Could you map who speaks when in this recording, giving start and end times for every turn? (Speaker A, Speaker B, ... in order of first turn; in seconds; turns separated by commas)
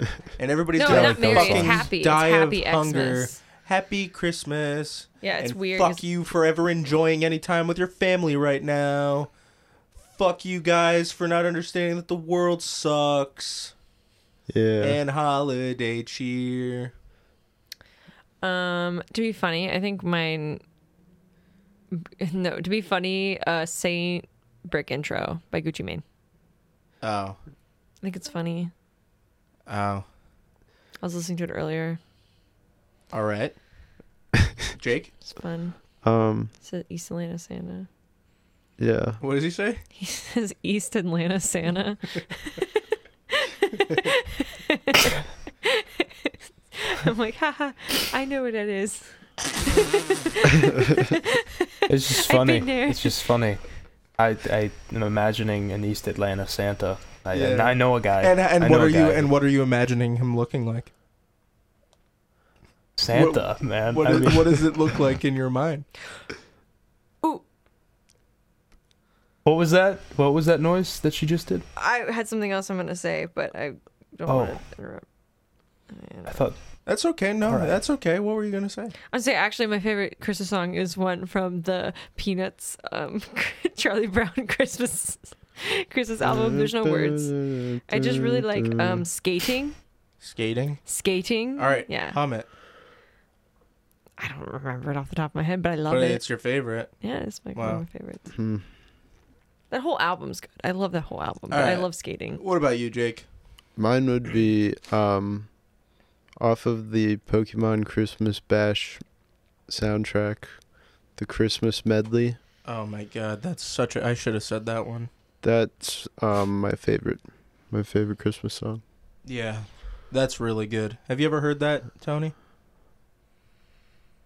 Speaker A: 0.4-9.3, Speaker B: 0.8-3.4, Speaker C: 0.9-1.8, Speaker B: 5.2-6.0, Speaker A: 10.1-13.7, Speaker D: 14.5-15.0, Speaker A: 14.8-16.9, Speaker B: 18.4-20.6, Speaker B: 21.9-26.0, Speaker A: 27.0-27.4, Speaker B: 28.0-28.7, Speaker A: 29.7-30.0, Speaker B: 31.0-32.0, Speaker A: 33.1-33.5, Speaker A: 34.7-35.2, Speaker B: 35.2-35.8, Speaker D: 36.0-36.5, Speaker B: 36.6-37.9, Speaker D: 38.8-39.2, Speaker A: 39.2-39.8, Speaker B: 40.0-42.6, Speaker B: 43.3-45.1, Speaker B: 45.6-49.1, Speaker B: 50.2-53.2, Speaker C: 51.9-53.6, Speaker C: 54.2-59.3, Speaker A: 57.3-60.9, Speaker C: 63.0-64.7, Speaker A: 63.1-65.8, Speaker C: 69.4-71.6, Speaker B: 71.8-75.0, Speaker C: 74.3-74.6, Speaker B: 75.9-76.3, Speaker C: 76.3-76.6, Speaker A: 76.8-78.9, Speaker C: 77.4-77.8, Speaker B: 79.1-87.3, Speaker D: 86.2-89.1, Speaker B: 87.9-89.8, Speaker A: 90.2-90.8, Speaker B: 90.8-92.2, Speaker A: 91.5-92.5, Speaker B: 94.2-96.2, Speaker A: 95.9-96.9, Speaker B: 97.0-98.2, Speaker A: 97.5-97.8, Speaker D: 98.3-98.7, Speaker B: 99.7-102.4, Speaker A: 101.5-103.2, Speaker D: 103.8-105.5, Speaker D: 106.4-109.0, Speaker D: 109.7-110.5, Speaker D: 111.2-112.4, Speaker A: 112.7-115.1, Speaker D: 115.4-118.8, Speaker A: 119.2-122.3